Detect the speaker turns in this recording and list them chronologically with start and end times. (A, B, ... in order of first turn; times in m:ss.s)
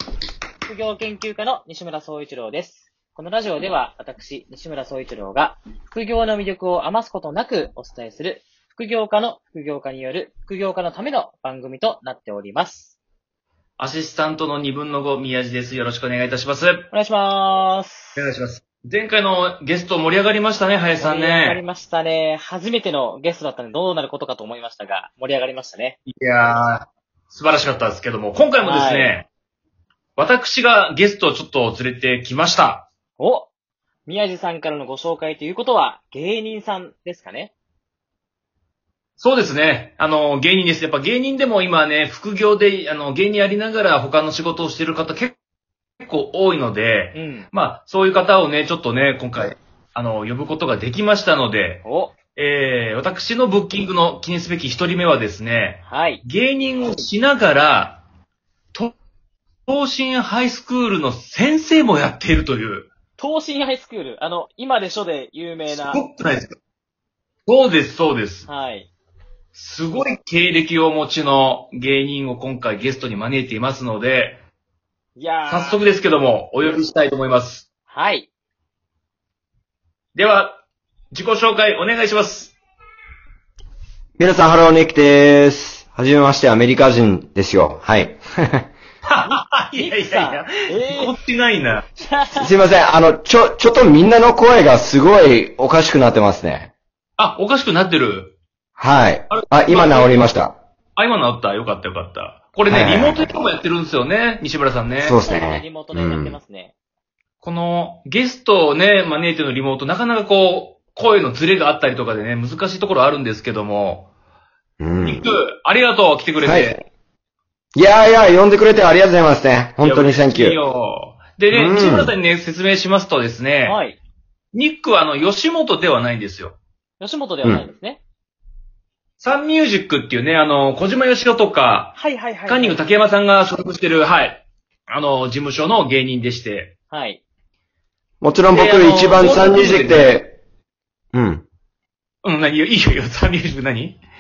0:00.7-0:13.0 A
0:13.8-0:16.9 B
0:16.9-0:18.2 A
0:18.2-0:21.6 B
0:21.0-0:26.0 A
0:26.1-0:29.3 B
0:28.6-0:29.1 A
0:30.2-0:32.9 B
0:33.2-0:33.5 A
0:34.1-0:37.5 A
0:39.2-0:45.4 B
0:46.0-0:58.0 B
0:47.2-0:47.5 A
0:51.8-0:52.2 A
0:55.9-0:56.2 A
0:59.7-1:02.9 B
1:03.2-1:06.0 A
1:05.7-1:06.6 B
1:07.5-1:08.5 B
1:08.5-1:08.9 A
1:09.6-1:14.4 B
1:15.2-1:15.8 A
1:15.5-1:17.7 B
1:17.9-1:18.3 A
1:20.2-1:20.6 B
1:21.1-1:22.6 B
1:24.2-1:28.7 C
1:29.1-1:31.9 B
1:29.8-1:31.2 A
1:32.0-1:32.5 A
1:32.4-1:36.7 C
1:37.2-1:38.4 B
1:38.8-1:40.6 C
1:39.3-1:40.3 B
1:41.0-1:45.2 B
1:42.7-1:43.3 C
1:45.0-1:46.4 C
1:45.2-1:46.7 A
1:47.4-1:54.1 B
1:54.8-1:55.2 C
1:55.0-1:56.8 B
1:56.4-1:56.8 C
1:57.8-2:00.6 C
1:59.8-2:03.8 B
2:01.5-2:02.1 C
2:03.6-2:04.0 A
2:04.5-2:06.6 B
2:07.0-2:08.0 A
2:09.2-2:16.7 B
2:12.0-2:12.8 A
2:16.9-2:17.2 A
2:18.2-2:20.4 C
2:18.5-2:20.2 B
2:21.1-2:21.4 C
2:22.2-2:24.0 B